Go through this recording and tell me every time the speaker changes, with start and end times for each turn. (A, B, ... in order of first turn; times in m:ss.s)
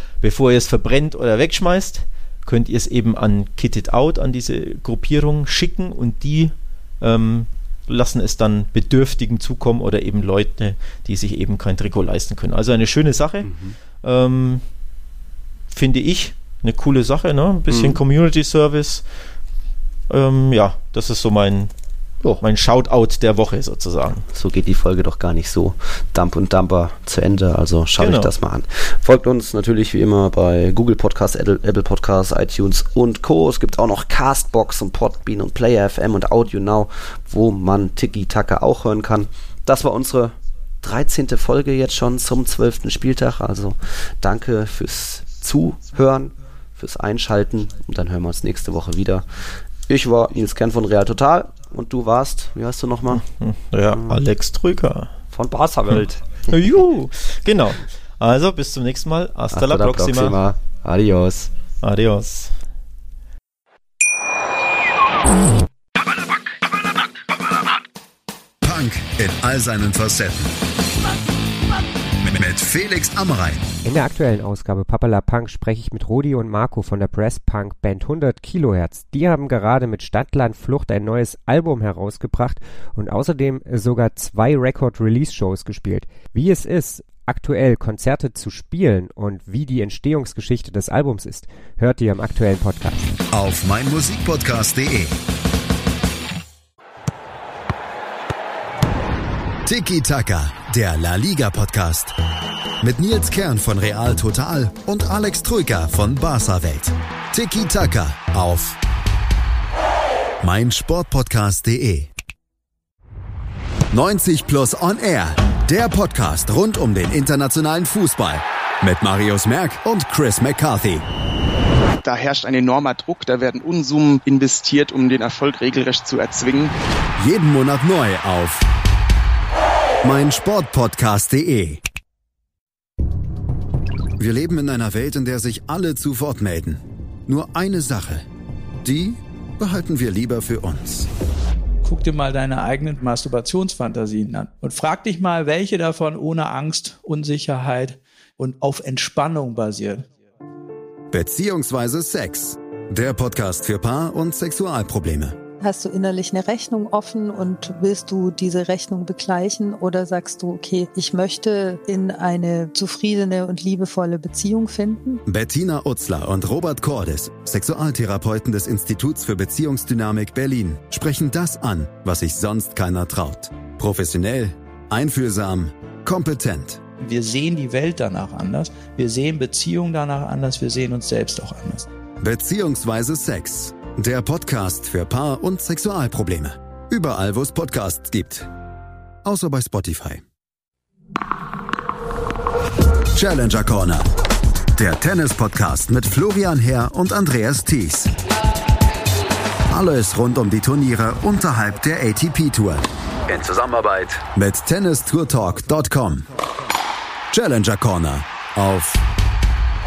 0:00.2-0:13.5 A
0:13.5-0:13.8 B
0:14.0-0:14.6 A
0:15.7-0:19.0 A
0:17.7-0:18.0 B
0:20.1-0:21.7 A
0:22.4-0:24.2 A
0:24.3-0:49.3 B
0:28.0-0:28.3 A
0:49.9-0:53.2 B
0:53.1-0:55.1 A
0:53.9-0:54.2 B
0:55.3-0:56.4 B
0:55.9-1:00.4 A
0:59.5-1:01.5 B
1:01.8-1:02.5 A
1:08.6-1:10.6 C
1:12.2-1:13.7 C
1:13.8-1:33.1 D
1:33.3-1:35.2 C
1:39.6-1:42.2 C
1:42.8-1:48.8 C
1:50.4-1:52.1 C
1:53.9-2:01.1 C
2:02.0-2:06.8 E
2:07.2-2:08.6 C
2:10.0-2:11.8 C
2:14.2-2:18.2 C
2:18.8-2:21.1 C
2:21.8-2:30.1 F
2:31.1-2:35.4 C
2:35.6-2:45.2 G
2:45.3-2:56.8 C
2:57.0-3:01.9 F
3:02.2-3:08.5 C
3:09.2-3:10.2 C
3:13.1-3:14.1 C
3:14.7-3:18.1 C
3:19.7-3:26.3 C
3:27.3-3:29.0 C